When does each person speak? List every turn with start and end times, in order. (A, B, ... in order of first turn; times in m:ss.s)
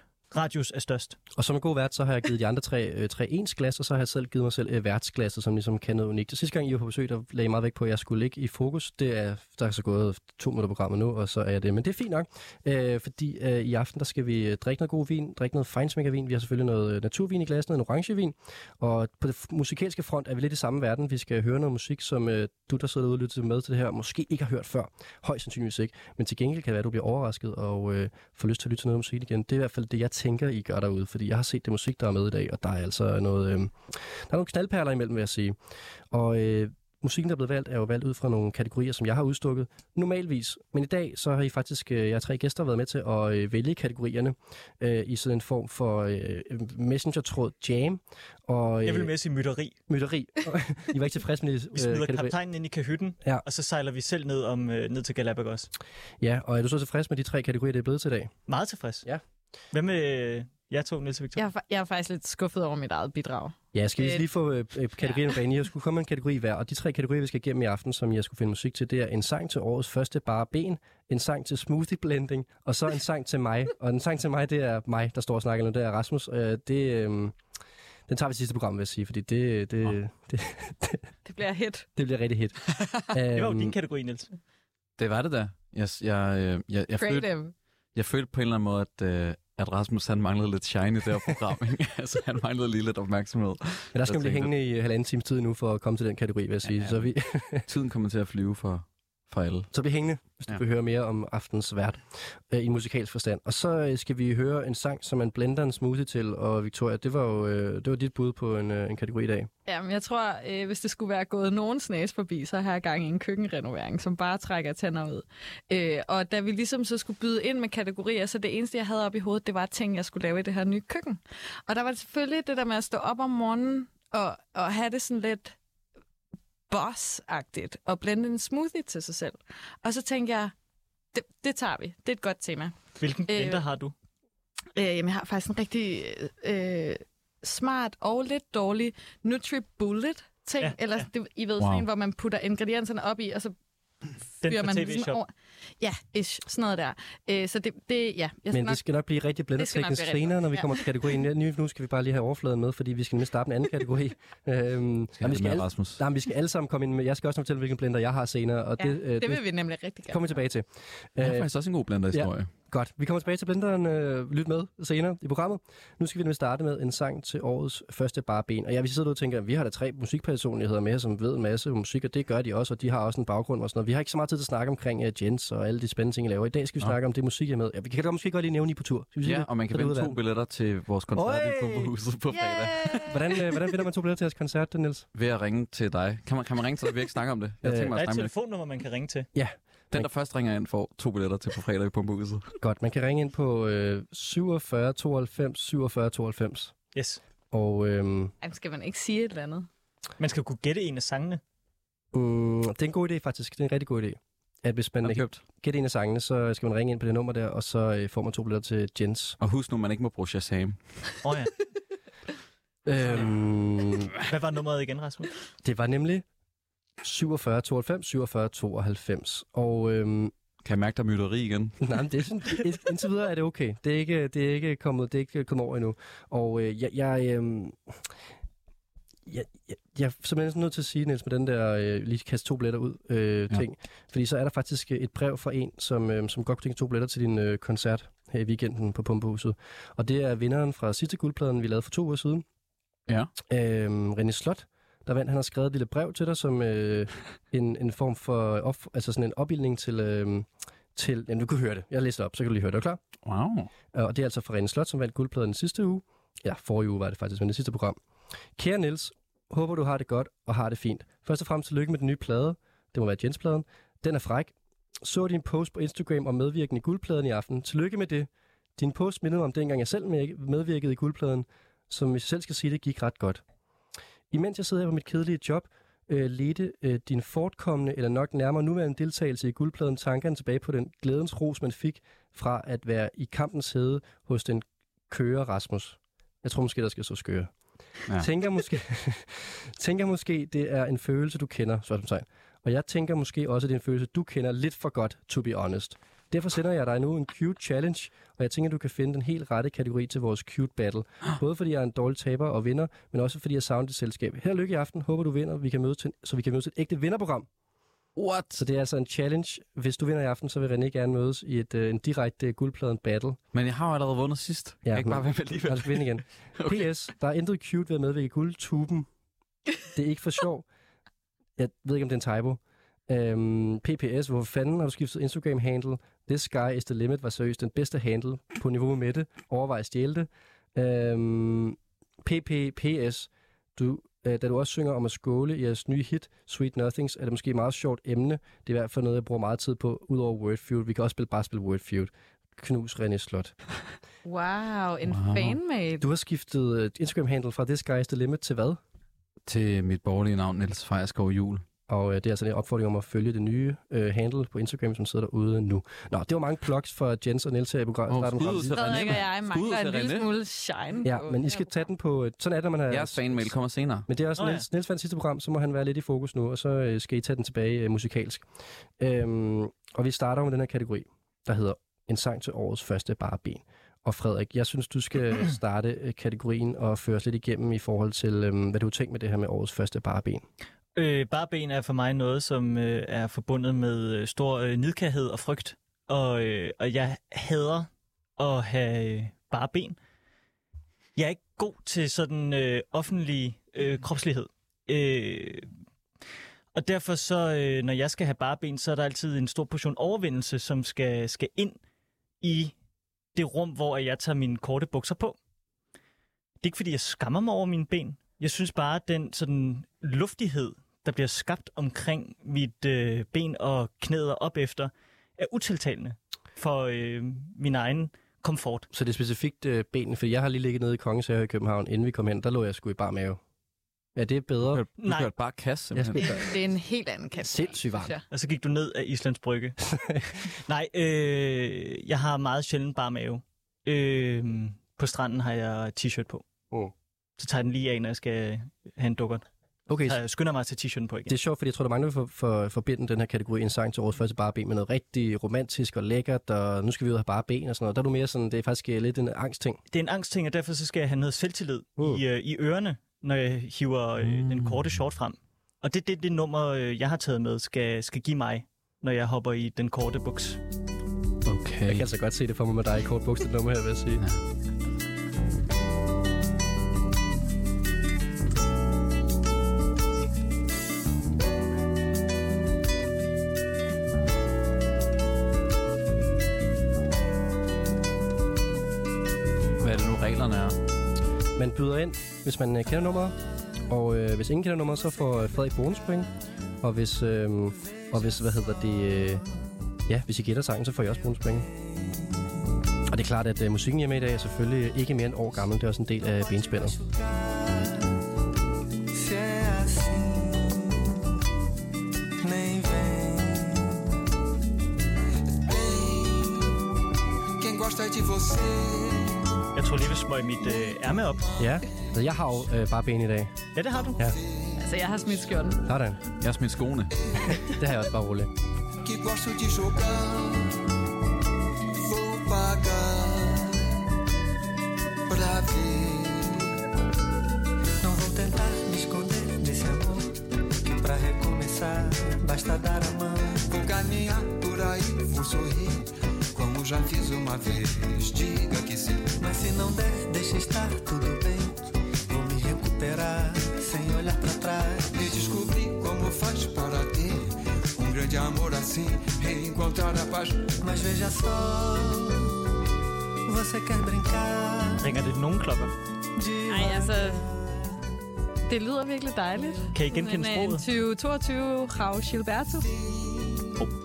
0:00.3-0:01.2 A
0:01.3-0:35.6 B
0:36.1-0:49.1 B
0:48.8-0:49.8 A
0:49.9-0:52.3 B
0:51.7-0:55.7 A
0:56.2-0:58.3 B
0:58.5-0:59.0 A
0:59.7-1:01.4 A
1:01.4-1:04.2 C
1:03.7-1:17.4 B
1:05.0-1:05.2 C
1:18.1-1:21.0 B
1:21.2-1:21.9 C
1:22.0-1:23.7 B
1:23.3-1:24.3 A
1:25.0-1:27.3 D
1:27.0-1:27.5 C
1:27.9-1:34.5 D
1:33.9-1:37.6 B
1:36.6-1:37.0 D
1:37.7-1:39.7 D
1:39.7-1:49.5 B
1:49.6-2:05.5 C
2:06.7-2:10.5 C
2:11.1-2:12.8 C
2:13.0-2:13.9 A
2:13.3-2:13.6 C
2:14.8-2:23.5 C
2:21.6-2:21.9 D
2:24.4-2:25.2 A
2:24.4-2:28.8 C
2:28.5-2:39.4 B
2:29.6-2:30.8 C
2:35.2-2:36.0 D
2:38.8-2:40.4 C
2:40.1-2:41.5 B
2:41.2-2:42.5 D
2:42.1-3:00.2 B
2:59.2-3:03.1 D
3:01.1-3:01.9 B
3:02.3-3:03.2 C
3:03.0-3:05.1 B
3:05.1-3:08.3 D
3:07.6-3:08.0 B
3:07.9-3:09.3 A
3:09.3-3:10.1 B
3:09.9-3:12.5 D
3:12.6-3:16.7 B
3:16.9-3:17.2 A
3:17.5-3:18.3 B
3:18.4-3:19.7 C
3:20.2-3:21.4 A
3:22.1-3:29.4 B
3:25.0-3:25.4 D
3:29.4-3:30.8 D
3:31.2-3:31.5 A
3:32.8-3:34.2 B
3:34.2-3:35.3 A
3:35.6-3:36.2 B
3:37.0-3:40.3 B
3:40.6-3:41.8 D
3:41.8-3:48.0 B
3:49.3-4:02.4 B
4:03.5-4:13.0 B
4:13.2-4:13.7 D
4:13.9-4:18.0 B
4:18.6-4:33.4 B
4:34.3-4:47.5 B
4:48.2-5:07.5 B
5:08.2-5:08.6 D
5:08.5-5:13.4 B
5:13.5-5:16.9 D
5:14.8-5:19.1 B
5:19.9-5:20.6 B
5:21.6-5:43.5 B
5:44.2-5:46.0 C
5:45.0-5:45.6 D
5:46.0-5:48.8 B
5:49.5-5:51.6 D
5:51.9-5:59.1 B
5:58.1-6:00.3 D
5:58.7-6:01.8 C
6:01.0-6:03.5 B
6:02.9-6:04.0 D
6:04.1-6:08.4 B
6:04.4-6:04.6 A
6:09.0-6:20.4 B
6:21.0-6:30.0 A
6:31.2-6:35.7 A
6:36.7-6:41.8 A
6:42.4-6:42.7 A
6:43.3-6:45.4 A
6:46.6-6:58.9 A
6:58.9-7:03.4 B
7:04.1-7:04.8 B
7:04.7-7:06.4 D
7:05.0-7:05.3 A
7:05.9-7:06.4 B
7:06.2-7:08.2 C
7:07.4-7:08.1 B
7:08.3-7:16.4 A
7:17.4-7:19.4 A
7:19.9-7:20.2 B
7:20.0-7:21.3 A
7:21.3-7:29.8 B
7:29.9-7:40.6 A
7:34.2-7:34.9 D
7:41.4-7:42.0 D
7:41.8-7:44.2 B
7:59.8-8:00.8 D
8:01.6-8:03.4 B
8:03.9-8:06.3 B
8:06.8-8:09.4 B
8:10.1-8:11.7 B
8:13.1-8:17.0 B
8:16.4-8:18.2 E
8:19.1-8:21.3 E
8:22.4-8:24.0 E
8:25.5-8:26.8 F
8:27.6-8:29.6 F
8:29.7-8:31.4 A
8:31.6-8:33.5 B
8:33.7-8:34.2 A
8:34.1-8:35.5 F
8:34.8-8:35.8 C
8:35.8-8:36.2 B
8:36.4-8:37.2 D
8:37.3-8:37.6 F
8:37.5-8:38.5 B
8:39.0-8:40.9 F
8:42.0-8:43.9 F
8:45.3-8:46.7 F
8:48.0-8:53.6 E
8:53.6-8:59.3 F
8:59.4-9:05.2 E
9:05.1-9:10.7 F
9:10.8-9:12.6 E
9:13.4-9:15.1 E
9:15.0-9:15.9 A
9:16.3-9:18.0 E
9:16.7-9:17.4 C
9:18.7-9:22.9 C
9:19.9-9:20.8 A
9:22.9-9:23.8 F